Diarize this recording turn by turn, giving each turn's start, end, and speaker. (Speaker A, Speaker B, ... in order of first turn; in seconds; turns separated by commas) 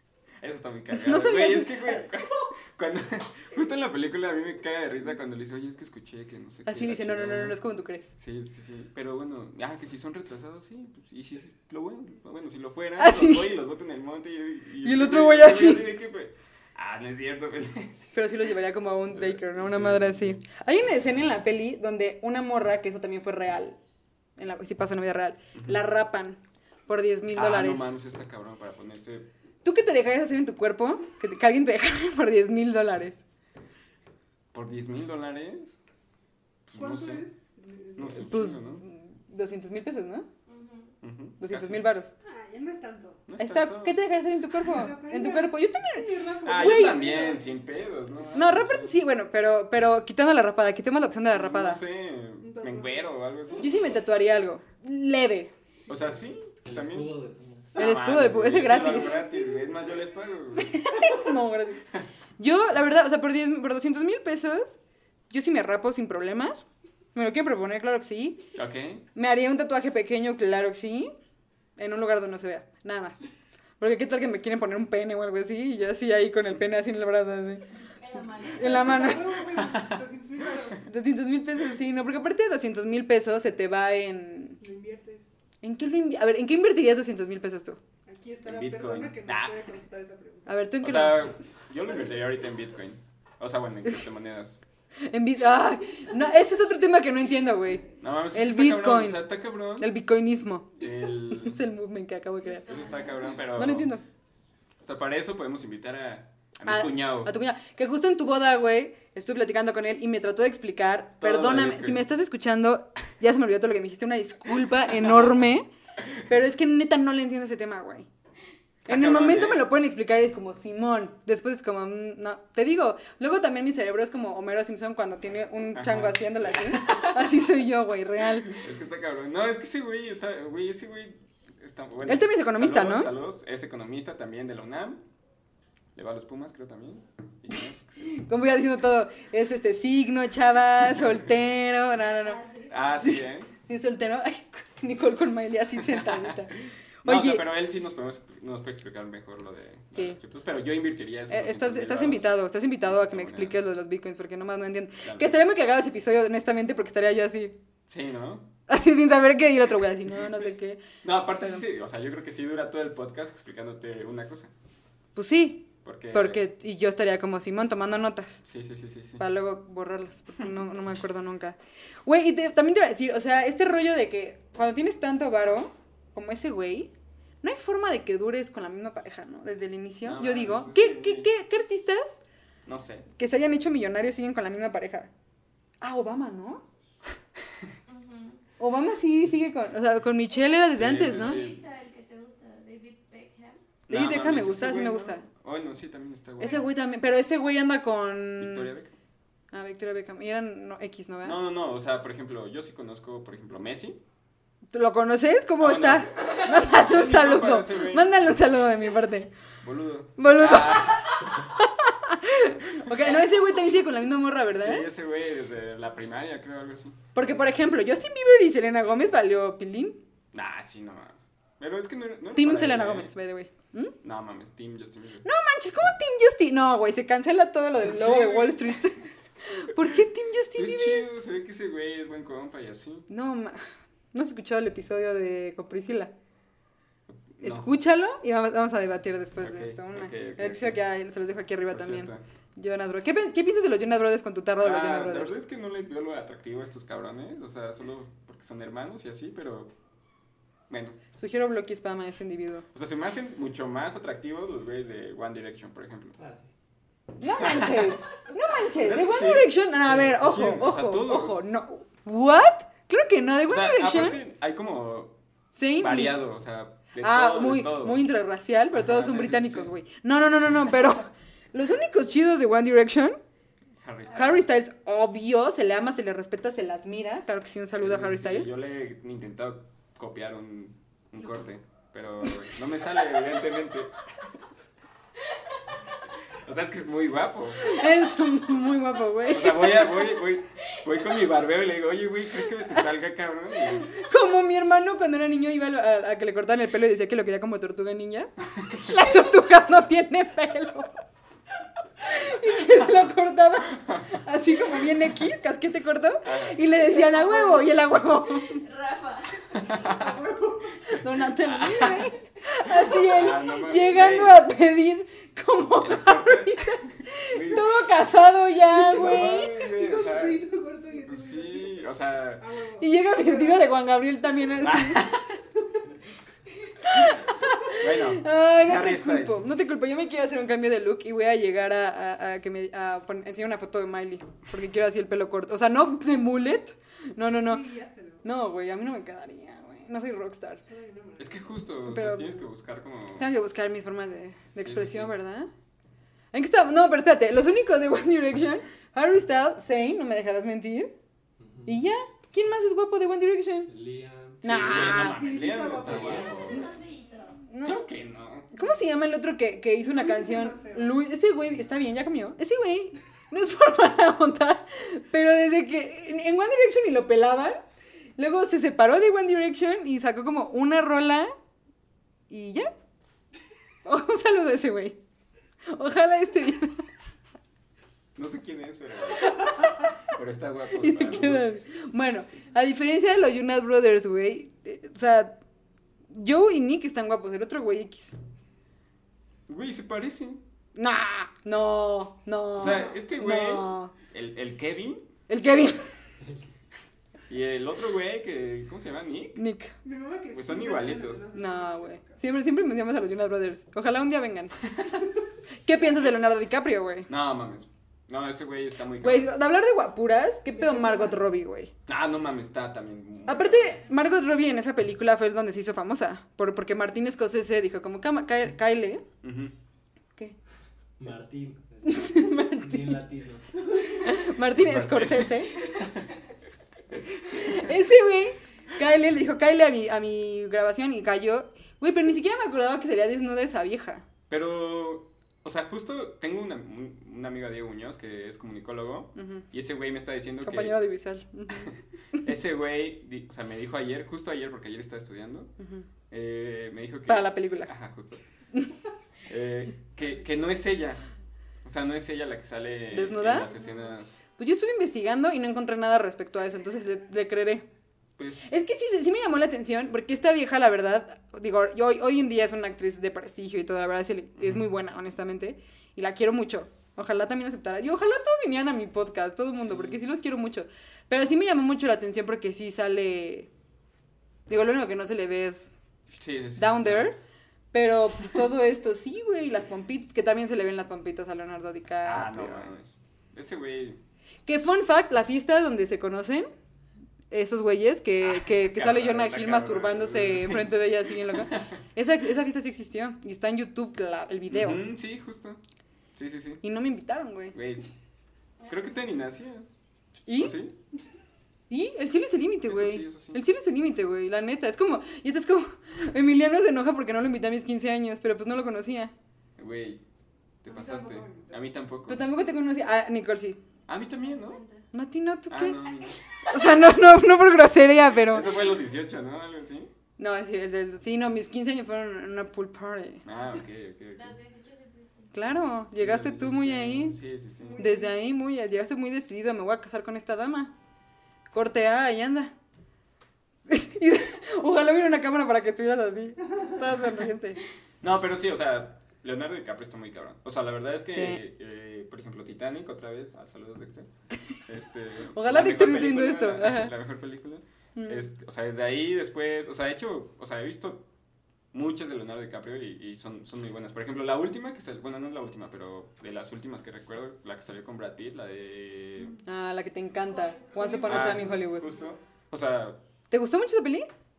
Speaker A: 0.4-7.6, Speaker B: 0.9-2.1, Speaker B: 6.7-8.1, Speaker A: 8.2-18.2, Speaker B: 13.0-13.5, Speaker B: 14.8-16.0, Speaker B: 18.1-23.8, Speaker A: 19.1-20.4, Speaker B: 24.4-27.9, Speaker A: 27.4-29.3, Speaker B: 29.6-33.2, Speaker A: 34.5-35.8, Speaker A: 36.7-37.3, Speaker C: 36.8-38.3, Speaker A: 38.0-38.8, Speaker B: 38.2-40.3, Speaker D: 40.5-41.0, Speaker A: 41.0-41.9, Speaker B: 41.4-42.1, Speaker C: 42.2-43.2, Speaker A: 43.3-44.0, Speaker B: 43.4-47.1, Speaker C: 44.6-47.5, Speaker A: 46.4-49.0, Speaker B: 48.3-51.8, Speaker A: 51.3-53.8, Speaker C: 52.4-53.1, Speaker B: 53.6-55.5, Speaker A: 55.9-57.2, Speaker E: 56.6-57.8, Speaker A: 57.7-60.9, Speaker B: 57.8-59.3, Speaker C: 58.5-60.1, Speaker B: 60.6-61.8, Speaker B: 62.4-64.8, Speaker B: 65.3-66.6, Speaker B: 67.2-68.5, Speaker A: 68.6-69.0, Speaker B: 69.1-71.1, Speaker B: 71.8-73.3, Speaker B: 73.8-77.7, Speaker D: 77.8-79.2, Speaker B: 78.2-79.6, Speaker C: 78.5-80.9, Speaker B: 80.8-84.6, Speaker C: 84.6-85.3, Speaker B: 85.6-87.8, Speaker C: 88.1-90.7, Speaker A: 88.5-89.6, Speaker B: 90.5-91.4, Speaker A: 90.8-94.6, Speaker B: 95.0-100.8, Speaker A: 98.0-99.9, Speaker A: 100.8-101.6, Speaker B: 101.3-104.0, Speaker D: 102.5-103.4, Speaker A: 102.7-103.9, Speaker A: 104.8-107.3, Speaker B: 106.6-115.7, Speaker A: 111.2-112.0, Speaker B: 116.3-118.1, Speaker A: 118.8-119.7, Speaker B: 118.9-128.6, Speaker A: 125.7-127.3, Speaker A: 128.6-135.0, Speaker B: 132.0-133.1, Speaker A: 135.9-138.1, Speaker B: 138.0-142.4, Speaker D: 142.1-143.1, Speaker A: 142.7-143.5, Speaker B: 143.0-147.4, Speaker A: 145.9-146.5, Speaker A: 147.1-153.6, Speaker B: 151.3-157.6, Speaker A: 155.0-155.3, Speaker A: 157.9-158.5, Speaker B: 158.7-160.9, Speaker A: 161.0-164.5, Speaker B: 165.2-168.4, Speaker A: 165.8-166.5, Speaker A: 168.4-169.3, Speaker B: 169.2-182.2, Speaker A: 180.0-181.3, Speaker A: 182.7-183.1, Speaker B: 183.2-185.1, Speaker B: 185.8-186.6, Speaker D: 187.9-188.4, Speaker B: 188.6-191.4, Speaker A: 190.8-191.6, Speaker D: 190.9-193.6, Speaker A: 193.9-196.7, Speaker B: 193.9-195.3, Speaker B: 196.4-198.7, Speaker A: 198.4-198.9, Speaker B: 199.5-201.4, Speaker A: 201.2-204.0, Speaker B: 204.7-209.3, Speaker A: 205.6-208.2, Speaker A: 209.6-211.2, Speaker B: 210.2-214.9, Speaker A: 212.9-213.3, Speaker A: 214.5-217.0, Speaker B: 217.2-220.0, Speaker A: 220.3-223.1, Speaker B: 222.3-223.9, Speaker A: 224.0-225.3, Speaker B: 225.2-231.1, Speaker A: 227.8-228.8, Speaker A: 230.5-233.1, Speaker B: 233.1-236.1, Speaker A: 237.1-237.7, Speaker B: 237.4-245.4, Speaker A: 239.4-240.8, Speaker A: 241.7-242.2, Speaker A: 244.6-249.7, Speaker A: 250.7-251.0, Speaker B: 251.2-252.7, Speaker A: 252.7-256.2, Speaker E: 256.2-256.5, Speaker B: 257.2-264.2, Speaker A: 257.4-257.9, Speaker A: 258.7-261.4, Speaker A: 263.5-265.2, Speaker B: 265.5-266.2, Speaker A: 265.8-268.0, Speaker B: 267.0-273.2, Speaker A: 268.7-269.7, Speaker A: 273.8-274.4, Speaker B: 274.1-278.5, Speaker A: 277.8-284.0, Speaker A: 286.3-287.7, Speaker B: 287.6-290.1, Speaker A: 289.3-293.9, Speaker B: 293.7-300.9, Speaker B: 302.0-308.6, Speaker A: 306.2-306.6, Speaker D: 307.0-307.8, Speaker D: 308.4-309.9, Speaker A: 309.5-310.2, Speaker C: 309.8-310.9, Speaker B: 310.9-319.6, Speaker A: 311.2-312.1, Speaker A: 312.8-314.4, Speaker A: 315.8-317.8, Speaker A: 318.7-322.5, Speaker C: 319.2-323.7, Speaker B: 322.8-325.1, Speaker A: 324.6-325.3, Speaker B: 326.8-337.7, Speaker A: 327.8-329.4, Speaker C: 337.3-338.2, Speaker B: 338.2-340.6, Speaker C: 340.7-341.6, Speaker A: 341.2-343.3, Speaker B: 341.9-342.5, Speaker B: 343.2-345.5, Speaker A: 344.6-345.1, Speaker B: 346.3-350.9, Speaker E: 351.4-351.8, Speaker B: 351.6-353.7, Speaker E: 353.7-354.8, Speaker B: 354.4-355.2, Speaker A: 354.4-356.7, Speaker C: 354.8-356.7, Speaker E: 355.8-356.3, Speaker D: 356.0-357.5, Speaker B: 357.5-357.9, Speaker A: 357.6-358.5, Speaker B: 358.5-367.6, Speaker C: 359.8-361.0, Speaker B: 368.2-371.3, Speaker B: 372.3-372.7, Speaker B: 373.9-375.0, Speaker B: 375.7-376.8, Speaker A: 378.2-381.6, Speaker B: 380.8-385.4, Speaker B: 386.1-388.2, Speaker A: 389.5-390.4, Speaker B: 390.8-393.9, Speaker A: 392.6-395.1, Speaker B: 395.3-395.9, Speaker E: 396.2-396.5, Speaker A: 397.3-399.4, Speaker B: 399.4-399.8, Speaker C: 399.8-402.2, Speaker A: 400.3-401.3, Speaker B: 401.3-404.7, Speaker B: 405.6-407.1, Speaker A: 407.1-409.3, Speaker B: 409.0-411.7, Speaker C: 410.5-411.2, Speaker A: 411.9-413.8, Speaker B: 413.3-419.1, Speaker A: 419.2-419.6, Speaker E: 421.0-423.7, Speaker B: 421.9-423.0, Speaker B: 424.0-425.6, Speaker A: 424.5-426.0, Speaker B: 427.3-434.1, Speaker A: 434.3-440.8, Speaker B: 439.2-439.4, Speaker B: 440.4-442.2, Speaker A: 441.5-445.5, Speaker B: 445.6-445.9, Speaker A: 446.1-448.2, Speaker B: 447.1-447.7, Speaker B: 448.5-448.8, Speaker A: 449.3-451.0, Speaker A: 451.6-454.2, Speaker B: 452.9-453.5, Speaker B: 454.4-457.7, Speaker A: 458.2-458.4, Speaker B: 458.4-473.5, Speaker A: 469.6-470.0, Speaker B: 474.5-475.7, Speaker A: 476.2-477.1, Speaker B: 476.6-477.2, Speaker B: 477.7-482.7, Speaker A: 482.0-484.0, Speaker B: 484.5-486.5, Speaker B: 487.3-494.8, Speaker A: 488.2-491.8, Speaker A: 494.5-495.6, Speaker A: 496.2-496.6, Speaker B: 496.6-497.6, Speaker A: 497.5-497.9, Speaker D: 498.6-499.0, Speaker A: 498.7-499.7, Speaker B: 500.3-500.6, Speaker A: 500.4-500.8, Speaker B: 501.7-509.1, Speaker A: 502.7-503.4, Speaker A: 509.6-510.0, Speaker A: 510.6-512.3, Speaker C: 510.7-511.6, Speaker B: 512.1-513.6, Speaker A: 513.9-514.6, Speaker D: 514.2-514.9, Speaker B: 514.9-515.8, Speaker A: 515.5-516.2, Speaker B: 516.5-518.5, Speaker A: 518.2-519.9, Speaker B: 520.2-523.2, Speaker A: 523.2-524.4, Speaker D: 524.1-525.4, Speaker B: 525.3-527.2, Speaker A: 525.9-527.8, Speaker B: 527.8-530.7, Speaker B: 531.5-532.5, Speaker B: 533.7-537.6, Speaker A: 538.0-544.1, Speaker B: 541.1-541.4, Speaker A: 544.6-551.1, Speaker B: 545.3-546.9, Speaker B: 548.0-548.3, Speaker A: 551.7-559.4, Speaker B: 559.5-561.9, Speaker D: 560.2-561.1, Speaker C: 560.7-562.1, Speaker A: 561.0-563.0, Speaker B: 563.3-564.1